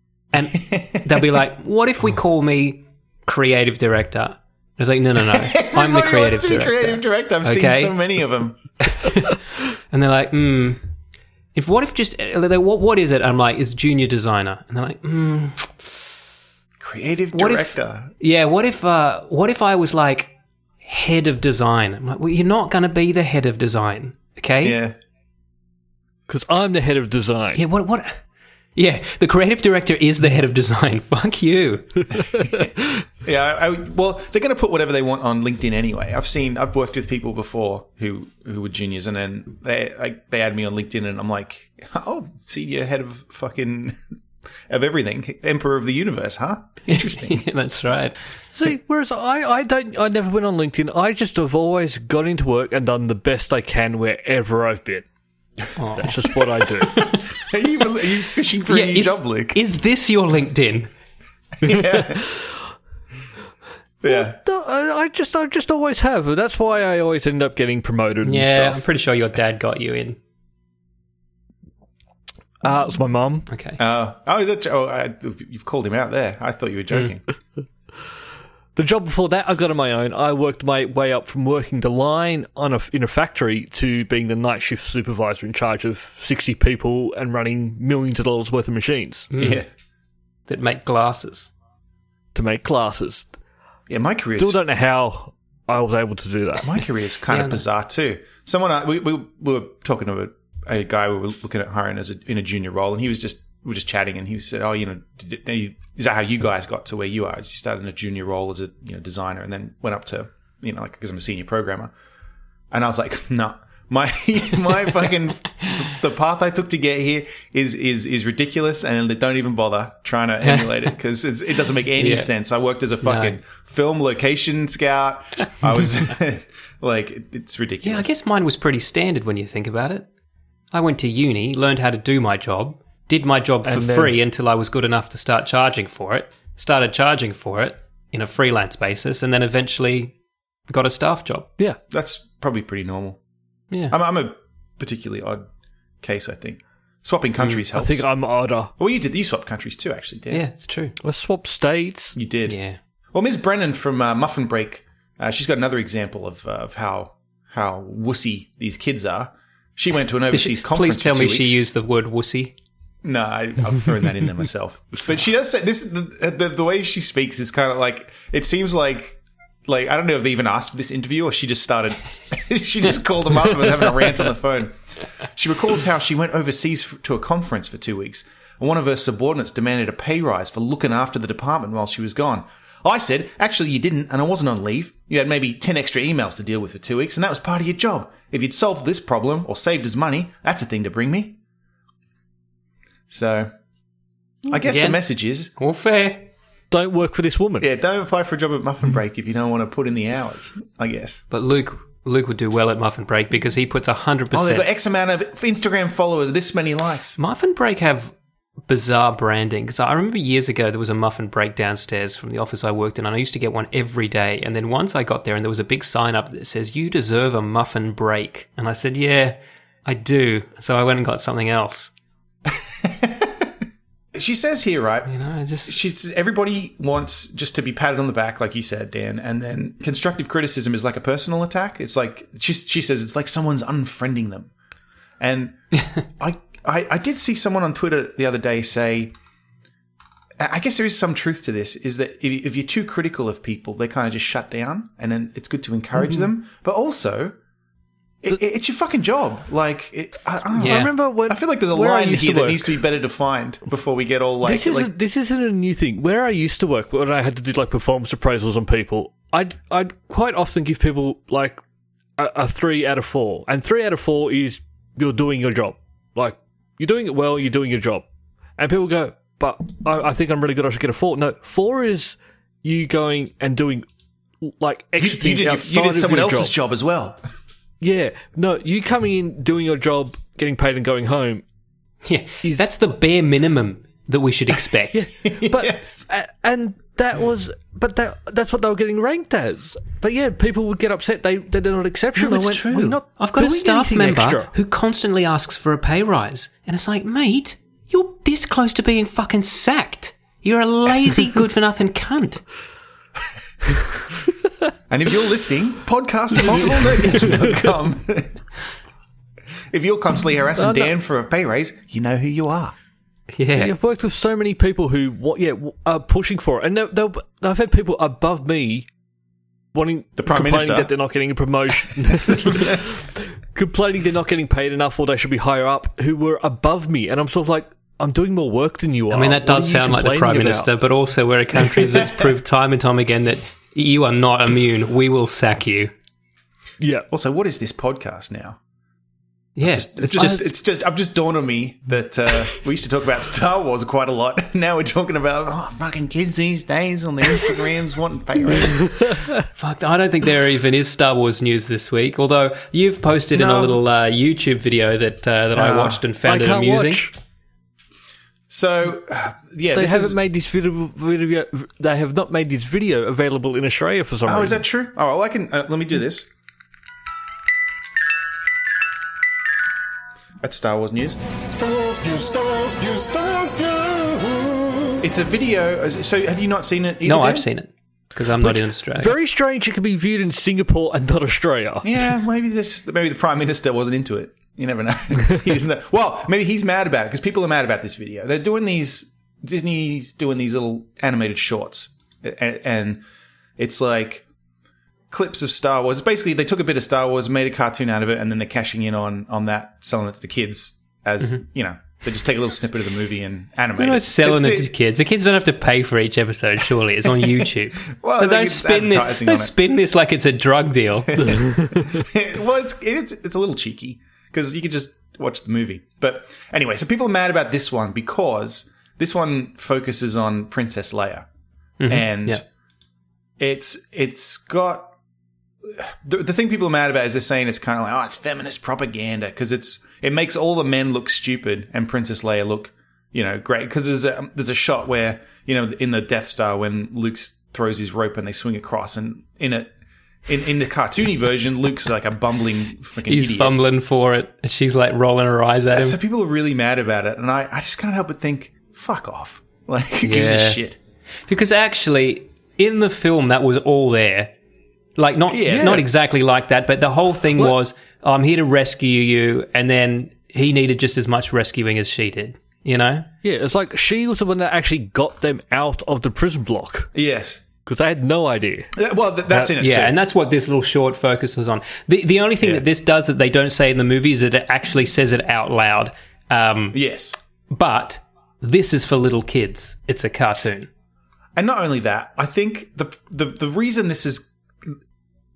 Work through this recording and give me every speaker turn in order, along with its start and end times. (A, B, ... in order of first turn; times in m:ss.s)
0:00.3-0:08.0 A
0:00.6-0:01.2 B
0:05.2-0:08.6 B
0:08.9-0:10.8 A
0:11.6-0:15.9 A
0:16.8-0:18.1 B
0:17.3-0:20.3 A
0:20.8-0:24.8 A
0:24.6-0:25.0 B
0:26.3-0:27.6 C
0:27.6-0:28.2 A
0:28.8-0:32.5 A
0:33.2-0:44.0 B
0:44.7-0:47.4 B
0:46.9-0:48.2 A
0:48.5-0:55.1 C
0:55.8-0:56.2 A
0:56.0-0:57.0 C
0:56.8-0:57.3 A
0:57.0-0:59.6 B
0:58.7-1:00.9 A
1:01.6-1:02.2 B
1:01.6-1:02.6 C
1:04.0-1:04.4 B
1:04.1-1:08.8 C
1:08.2-1:10.2 A
1:12.6-1:13.5 C
1:13.5-1:13.8 A
1:13.8-1:17.2 B
1:18.8-1:29.3 C
1:29.3-1:29.6 A
1:29.4-1:29.7 B
1:30.5-1:31.5 A
1:32.3-1:33.3 C
1:33.9-1:34.6 B
1:34.4-1:36.7 C
1:36.6-1:51.9 B
1:37.3-1:37.6 A
1:52.7-2:08.1 B
2:00.4-2:00.8 A
2:02.0-2:02.3 A
2:03.0-2:03.4 A
2:07.8-2:10.1 A
2:10.7-2:20.1 A
2:13.6-2:14.2 C
2:20.7-2:21.5 A
2:21.9-2:23.2 B
2:23.7-2:24.0 A
2:23.9-2:25.5 B
2:26.0-2:28.1 B
2:27.7-2:28.7 C
2:28.8-2:30.4 B
2:30.3-2:31.0 A
2:31.0-2:32.2 C
2:32.1-2:32.6 B
2:32.5-2:32.8 A
2:33.1-2:41.6 B
2:40.3-2:42.6 A
2:43.0-3:11.4 B
3:13.1-3:13.5 B
3:14.5-3:15.5 B
3:14.6-3:15.0 A
3:15.6-3:16.3 A
3:16.7-3:17.7 C
3:17.6-3:21.2 B
3:21.3-3:24.6 A
3:24.3-3:27.2 B
3:27.2-3:28.1 A
3:28.6-3:41.9 A
3:42.5-3:43.5 B
3:44.1-3:45.1 B
3:45.1-3:45.8 A
3:45.6-3:54.5 B
3:55.2-3:55.6 B
3:56.1-3:59.1 B
4:00.4-4:07.4 B
4:08.2-4:14.9 B
4:10.6-4:12.8 C
4:10.6-4:10.9 A
4:14.4-4:21.6 C
4:22.2-4:28.1 C
4:28.6-4:33.9 C
4:34.4-4:36.5 C
4:35.0-4:37.2 B
4:37.8-4:41.4 C
4:42.0-4:45.0 A
4:44.9-4:54.5 C
4:45.2-4:46.0 B
4:52.2-5:02.4 A
5:04.9-5:08.4 B
5:07.0-5:07.4 C
5:09.7-5:12.8 B
5:10.6-5:10.9 C
5:13.3-5:13.7 A
5:13.5-5:18.9 C
5:19.7-5:30.7 C
5:20.2-5:20.9 B
5:22.3-5:22.8 B
5:29.1-5:35.9 A
5:36.8-5:37.1 C
5:37.1-5:38.6 B
5:39.6-5:40.5 A
5:39.6-5:48.9 B
5:48.8-5:49.4 C
5:49.6-5:57.1 A
5:53.3-5:53.8 B
5:55.6-5:56.0 B
5:56.2-5:57.1 C
5:58.5-6:00.2 B
5:59.7-6:04.6 C
6:04.3-6:06.3 B
6:10.4-6:11.2 B
6:11.7-6:14.5 D
6:14.9-6:17.5 B
6:17.0-6:19.1 A
6:18.4-6:21.9 C
6:21.8-6:33.0 B
6:33.6-6:34.2 B
6:35.1-6:44.7 B
6:43.8-6:51.5 A
6:47.2-6:49.5 B
6:51.1-7:01.3 B
6:51.2-6:52.0 C
7:01.8-7:02.4 A
7:01.9-7:02.4 B
7:03.4-7:04.9 B
7:05.6-7:19.7 B
7:20.3-7:23.6 B
7:23.1-7:26.0 A
7:25.7-7:30.8 B
7:30.0-7:30.6 A
7:31.3-7:34.3 A
7:35.0-7:43.1 A
7:35.3-7:35.9 B
7:35.5-7:35.8 C
7:43.2-7:46.9 C
7:46.9-7:47.4 B
7:47.6-7:48.7 C
7:48.7-7:50.0 B
7:49.6-7:56.8 A
7:56.7-7:57.2 B
7:57.5-8:00.7 A
8:01.4-8:04.8 B